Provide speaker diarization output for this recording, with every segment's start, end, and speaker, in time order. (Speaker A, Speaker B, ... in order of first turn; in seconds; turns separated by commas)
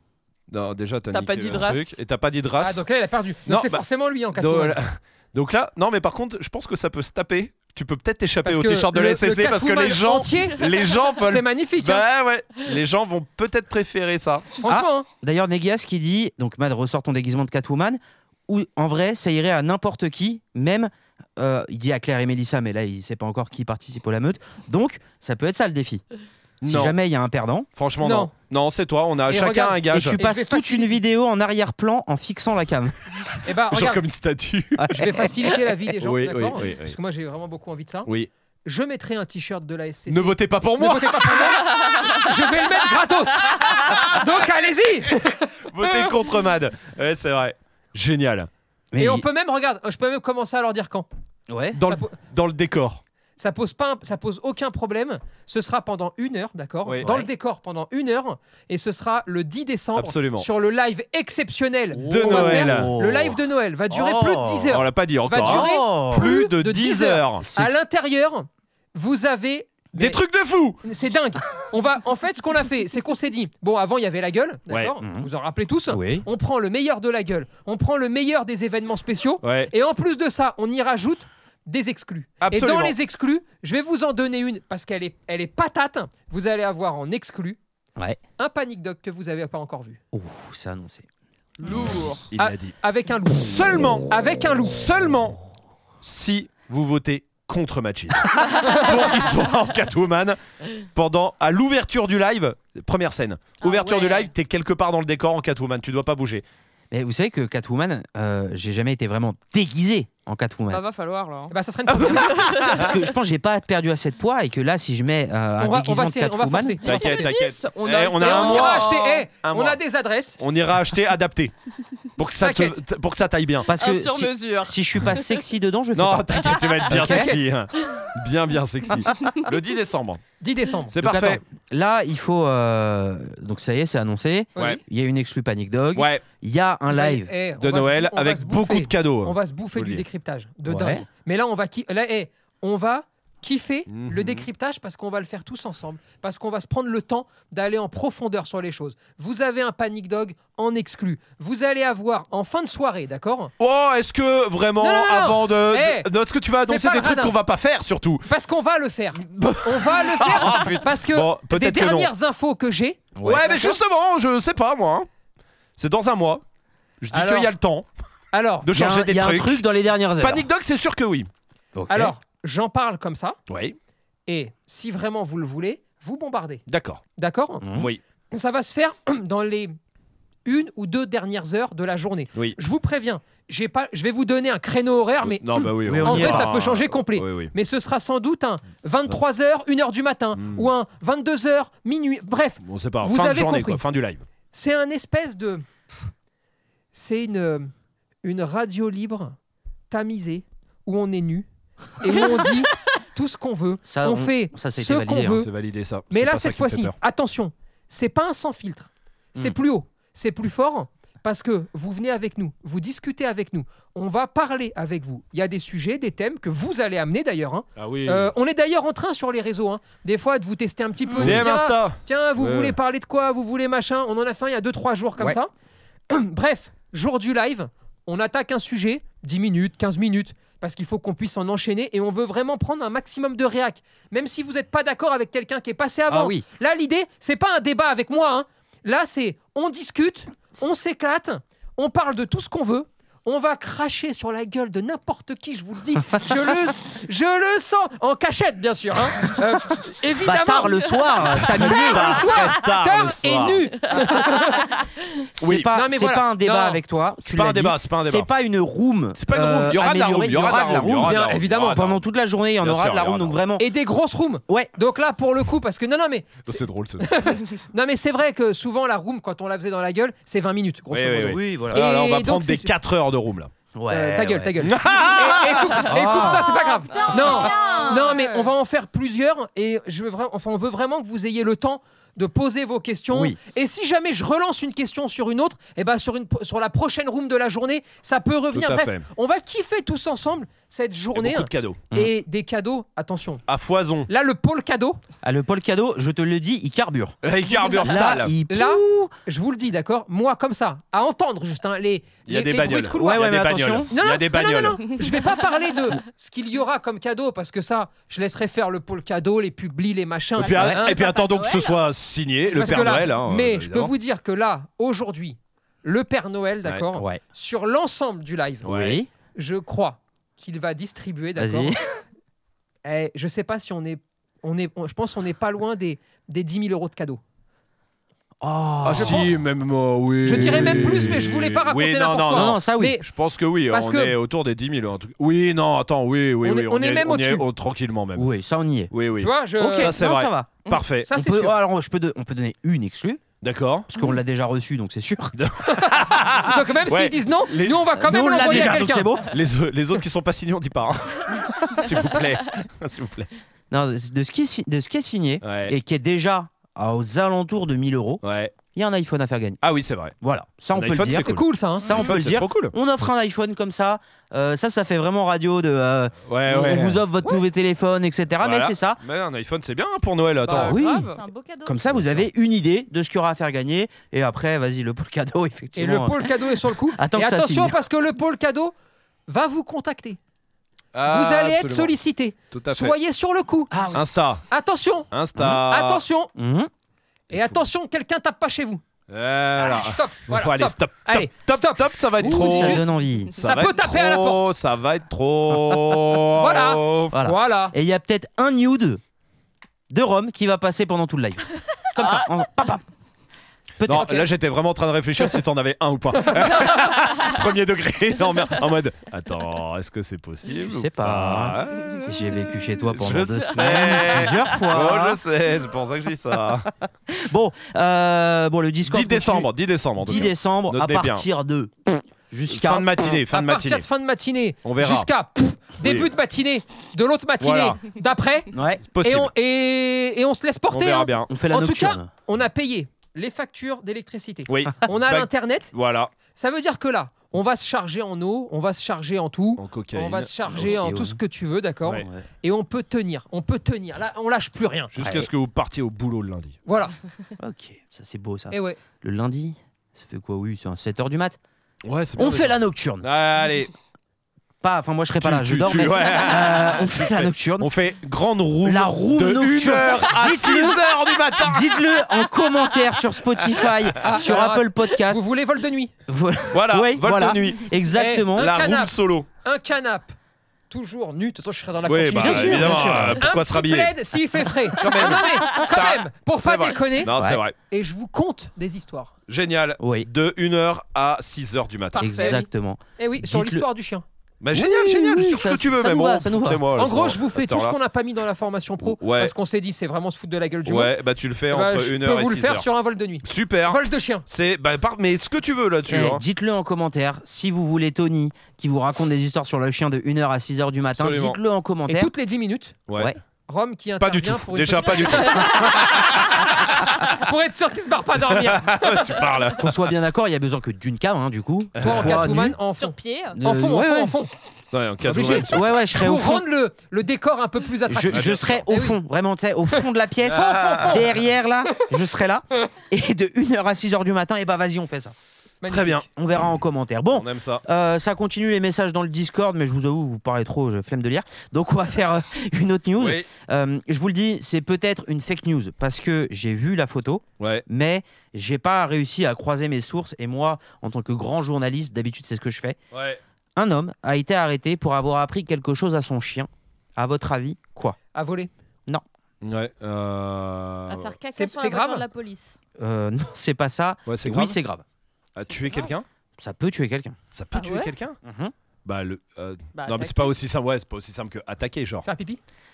Speaker A: 0.5-2.8, Speaker B: 1.1-2.0, Speaker C: 2.6-4.8, Speaker A: 3.5-14.5, Speaker C: 8.4-12.1, Speaker C: 14.6-15.1, Speaker D: 14.7-26.0, Speaker A: 26.6-27.0, Speaker D: 26.6-27.7, Speaker A: 27.8-30.2, Speaker C: 28.0-28.3, Speaker C: 29.3-31.0, Speaker D: 29.9-33.0, Speaker C: 33.5-34.0, Speaker A: 33.7-35.0, Speaker D: 34.8-35.3, Speaker C: 34.9-38.1, Speaker A: 36.0-37.0, Speaker A: 38.0-38.3, Speaker C: 38.6-45.5, Speaker A: 40.1-41.5, Speaker A: 45.7-48.5, Speaker D: 48.9-49.2, Speaker C: 49.0-51.1, Speaker D: 51.5-51.8, Speaker A: 51.8-53.0, Speaker C: 51.9-52.1, Speaker C: 53.4-70.2, Speaker A: 56.9-57.1, Speaker D: 57.0-57.3, Speaker A: 60.0-60.5, Speaker D: 61.9-64.8, Speaker A: 62.0-62.9, Speaker A: 64.7-67.5, Speaker D: 65.4-66.3, Speaker D: 67.4-67.8, Speaker A: 69.9-70.8, Speaker C: 70.8-87.6, Speaker A: 74.7-75.0, Speaker D: 75.0-75.3, Speaker D: 75.9-76.3, Speaker A: 79.4-79.7, Speaker A: 82.4-83.0, Speaker C: 88.4-90.0, Speaker D: 90.1-91.1, Speaker A: 91.6-92.8, Speaker B: 91.7-92.2, Speaker C: 92.4-94.8, Speaker A: 93.3-94.1, Speaker A: 94.7-95.4, Speaker A: 96.0-106.4, Speaker C: 103.7-104.3, Speaker D: 106.9-110.8, Speaker B: 110.7-111.5, Speaker C: 111.5-112.5, Speaker A: 111.9-112.9, Speaker B: 112.4-112.8, Speaker D: 112.6-117.0, Speaker C: 115.6-117.2, Speaker B: 116.8-119.3, Speaker A: 116.8-118.9, Speaker C: 118.2-120.4, Speaker A: 119.4-119.8, Speaker A: 120.4-121.5, Speaker A: 122.2-123.7, Speaker C: 122.4-122.8, Speaker D: 123.7-127.4, Speaker B: 123.8-125.4, Speaker A: 125.9-130.2, Speaker C: 127.0-127.4, Speaker C: 130.4-130.9, Speaker A: 130.9-131.4, Speaker D: 131.0-137.3, Speaker A: 134.6-134.8, Speaker C: 134.6-134.8, Speaker A: 135.9-136.2, Speaker C: 136.9-153.5, Speaker A: 137.6-140.0, Speaker D: 140.7-141.1, Speaker A: 143.9-144.4, Speaker A: 153.6-158.3, Speaker C: 154.8-156.1, Speaker C: 156.7-157.3, Speaker C: 158.3-163.8, Speaker A: 159.2-162.1, Speaker D: 163.2-163.5, Speaker A: 163.2-165.1, Speaker A: 165.8-166.4, Speaker A: 167.0-167.9, Speaker C: 167.1-167.5, Speaker C: 168.3-168.7, Speaker A: 168.6-169.6, Speaker D: 168.7-170.5, Speaker A: 170.2-171.3, Speaker D: 171.8-172.2, Speaker C: 171.9-173.4, Speaker A: 173.5-173.8, Speaker C: 174.3-176.6, Speaker A: 176.7-177.0, Speaker C: 177.2-177.7, Speaker D: 177.6-177.9, Speaker A: 177.8-178.0, Speaker C: 178.3-179.8, Speaker C: 180.4-193.8, Speaker A: 185.2-187.5, Speaker D: 185.8-186.6, Speaker A: 190.3-190.7, Speaker A: 192.6-194.2, Speaker C: 194.5-195.7, Speaker C: 196.9-197.7, Speaker C: 198.2-199.4, Speaker C: 199.9-201.5, Speaker C: 202.0-205.5, Speaker D: 203.8-205.5, Speaker A: 205.3-207.0, Speaker C: 206.1-225.5, Speaker A: 217.8-218.3, Speaker A: 221.2-222.8, Speaker C: 226.1-254.7, Speaker D: 236.1-236.4, Speaker D: 250.2-252.3, Speaker A: 251.3-253.8, Speaker D: 255.4-263.7, Speaker A: 255.4-255.7, Speaker C: 255.7-256.8, Speaker A: 257.2-258.3, Speaker A: 259.1-262.0, Speaker C: 261.1-261.6, Speaker A: 262.6-263.4, Speaker C: 263.6-272.7, Speaker A: 266.4-267.1, Speaker A: 270.9-273.5, Speaker D: 271.2-271.8, Speaker D: 273.8-274.6, Speaker C: 273.9-293.4, Speaker A: 274.6-275.9, Speaker D: 275.8-276.6, Speaker E: 276.1-278.4, Speaker B: 276.9-278.4, Speaker D: 283.1-283.4, Speaker A: 288.5-289.1, Speaker A: 291.1-291.9, Speaker A: 293.5-294.1, Speaker C: 294.1-295.0, Speaker D: 295.2-297.2, Speaker A: 297.2-298.3, Speaker D: 297.8-299.1, Speaker C: 298.5-303.2, Speaker A: 302.3-304.9, Speaker D: 302.9-303.9, Speaker C: 303.9-311.0, Speaker A: 310.4-313.9, Speaker E: 310.4-311.8, Speaker D: 310.5-310.8, Speaker C: 312.5-318.7, Speaker D: 316.9-317.2, Speaker A: 318.6-319.0, Speaker D: 318.6-319.1, Speaker C: 319.2-322.0, Speaker D: 321.4-321.8, Speaker C: 322.8-327.2, Speaker D: 328.4-329.3, Speaker A: 328.8-338.3, Speaker C: 328.9-329.3, Speaker C: 330.2-333.1, Speaker D: 330.4-331.2, Speaker D: 332.3-333.0, Speaker C: 333.7-334.2, Speaker C: 336.4-337.4, Speaker D: 338.2-338.9, Speaker A: 338.9-341.1, Speaker C: 339.2-340.0, Speaker D: 339.6-343.2, Speaker C: 341.1-341.6, Speaker A: 343.4-343.9, Speaker D: 343.9-345.3, Speaker A: 345.4-353.3, Speaker C: 345.7-349.1, Speaker D: 347.9-349.3, Speaker D: 353.7-358.2, Speaker A: 355.4-355.8, Speaker A: 358.2-358.5, Speaker D: 358.7-359.6, Speaker A: 359.6-360.2, Speaker D: 360.2-369.0, Speaker A: 360.7-362.7, Speaker C: 361.1-361.9, Speaker A: 366.3-367.0, Speaker A: 368.4-370.8, Speaker B: 370.5-371.2, Speaker D: 370.5-371.1, Speaker E: 371.1-371.9, Speaker D: 371.6-377.8, Speaker A: 371.9-372.2, Speaker C: 375.8-378.7, Speaker C: 379.3-380.2, Speaker A: 380.9-381.9, Speaker C: 381.1-383.9, Speaker A: 382.5-383.0, Speaker D: 383.7-384.0, Speaker A: 383.9-384.4, Speaker C: 384.5-386.3, Speaker A: 385.1-386.0, Speaker D: 386.4-386.7, Speaker A: 387.3-387.6, Speaker C: 387.3-388.8, Speaker A: 389.1-397.2, Speaker C: 389.6-394.5, Speaker D: 392.2-393.4, Speaker C: 396.4-397.8, Speaker D: 397.1-399.0, Speaker D: 399.9-402.8, Speaker D: 403.8-404.3, Speaker A: 403.8-412.0, Speaker D: 410.4-415.2, Speaker A: 412.9-416.7, Speaker D: 417.1-423.2, Speaker A: 418.9-421.3, Speaker A: 422.5-423.9, Speaker C: 423.3-435.7, Speaker A: 424.6-425.1, Speaker A: 425.8-426.1, Speaker A: 427.4-427.8, Speaker D: 428.5-428.9, Speaker A: 428.9-429.3, Speaker A: 430.7-431.3, Speaker D: 431.3-432.1, Speaker A: 434.5-436.1, Speaker C: 436.3-444.9, Speaker A: 439.6-440.9, Speaker D: 440.5-441.2, Speaker D: 441.9-442.2, Speaker A: 444.9-446.6, Speaker D: 445.0-445.3, Speaker C: 446.7-446.9, Speaker D: 447.4-451.4, Speaker C: 448.5-448.8, Speaker A: 451.9-453.7, Speaker D: 452.2-453.1, Speaker D: 454.6-457.7, Speaker A: 455.2-461.9, Speaker D: 458.6-465.2, Speaker C: 464.0-465.9, Speaker D: 466.1-468.5, Speaker A: 466.5-467.7, Speaker C: 467.9-470.2, Speaker A: 468.3-469.3, Speaker C: 470.7-479.1, Speaker A: 471.8-473.9, Speaker D: 472.2-473.2, Speaker A: 474.7-477.6, Speaker D: 477.1-477.4, Speaker A: 479.3-482.4, Speaker D: 479.8-480.1, Speaker D: 482.0-483.7, Speaker C: 482.0-482.4, Speaker C: 483.0-484.1, Speaker A: 484.4-487.8, Speaker D: 484.5-486.7, Speaker C: 486.8-490.9, Speaker A: 488.8-489.3, Speaker A: 490.6-492.7, Speaker C: 491.5-494.3, Speaker A: 493.2-496.2, Speaker D: 495.9-502.1, Speaker A: 501.0-501.4, Speaker C: 501.9-502.8, Speaker A: 502.9-503.1, Speaker C: 503.5-509.3, Speaker A: 504.0-507.1, Speaker A: 508.3-509.9, Speaker D: 509.6-512.6, Speaker A: 511.8-512.3, Speaker C: 511.8-514.3, Speaker E: 512.7-513.4, Speaker D: 513.4-514.2, Speaker A: 514.7-515.8, Speaker C: 515.0-519.0, Speaker D: 515.2-516.5, Speaker D: 517.9-525.1, Speaker A: 518.0-518.7, Speaker A: 520.2-521.1, Speaker C: 520.4-521.2, Speaker C: 525.6-526.1, Speaker A: 525.7-526.1, Speaker D: 526.1-542.8, Speaker A: 527.1-527.6, Speaker A: 533.0-533.3, Speaker A: 542.9-543.2, Speaker D: 543.6-548.0, Speaker C: 548.1-548.5, Speaker A: 549.4-551.1, Speaker E: 550.9-552.6, Speaker C: 551.3-552.1, Speaker D: 552.8-554.8, Speaker A: 554.1-554.6, Speaker A: 555.4-556.1, Speaker D: 556.4-557.2, Speaker A: 557.3-558.2, Speaker E: 557.5-557.9, Speaker D: 558.2-558.5, Speaker A: 558.9-562.1, Speaker B: 559.8-560.3, Speaker C: 562.0-562.4